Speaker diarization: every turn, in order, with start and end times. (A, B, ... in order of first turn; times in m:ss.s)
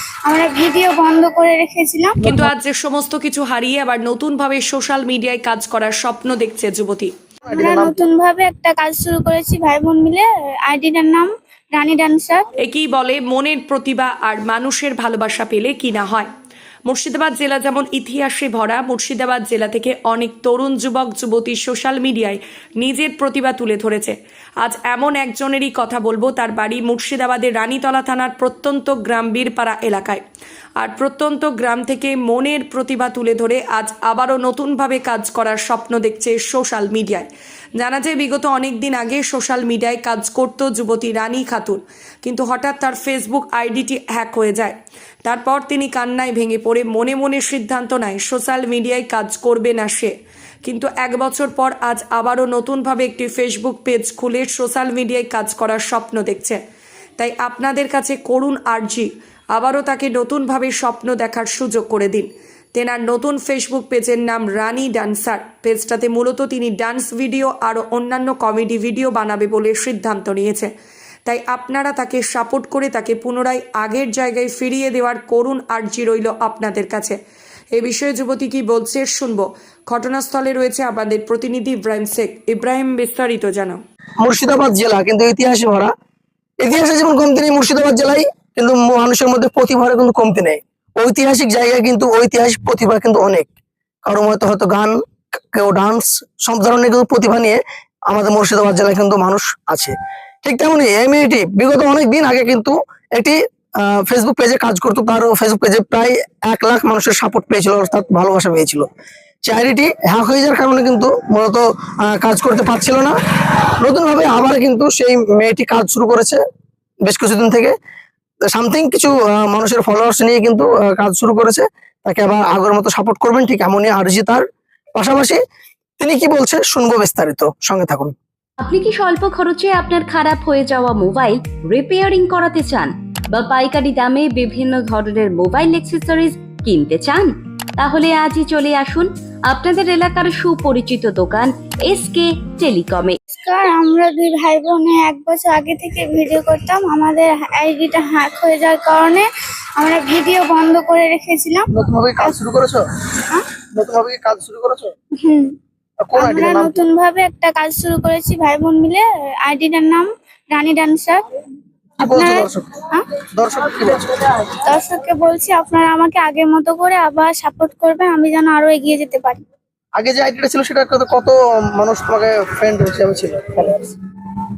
0:00.3-0:02.2 A
0:02.2-0:07.1 B
0:02.2-0:02.5 C
0:07.4-0:08.0 C
0:07.5-0:12.4 A
0:12.6-0:16.3 B
0:16.9-0:30.2 B
0:30.8-0:37.3 B
0:37.8-0:50.1 B
0:50.6-0:56.6 B
0:57.2-1:10.7 B
1:11.3-1:17.2 B
1:17.7-1:23.8 B
1:24.2-1:25.9 C
1:26.6-1:33.5 C
1:34.1-1:48.9 C
1:49.5-1:53.2 C
1:53.8-1:56.4 C
1:57.0-1:57.7 C
1:58.5-2:04.4 C
2:05.0-2:05.4 C
2:06.0-2:08.1 C
2:08.6-2:23.2 D
2:23.4-2:29.3 A
2:29.8-2:31.7 A
2:31.7-2:32.8 C
2:33.7-2:34.9 C
2:35.2-2:35.5 A
2:36.0-2:36.8 C
2:36.2-2:41.2 A
2:42.0-2:42.7 C
2:42.2-2:43.1 A
2:43.3-2:44.3 C
2:44.6-2:49.4 A
2:50.0-2:53.9 C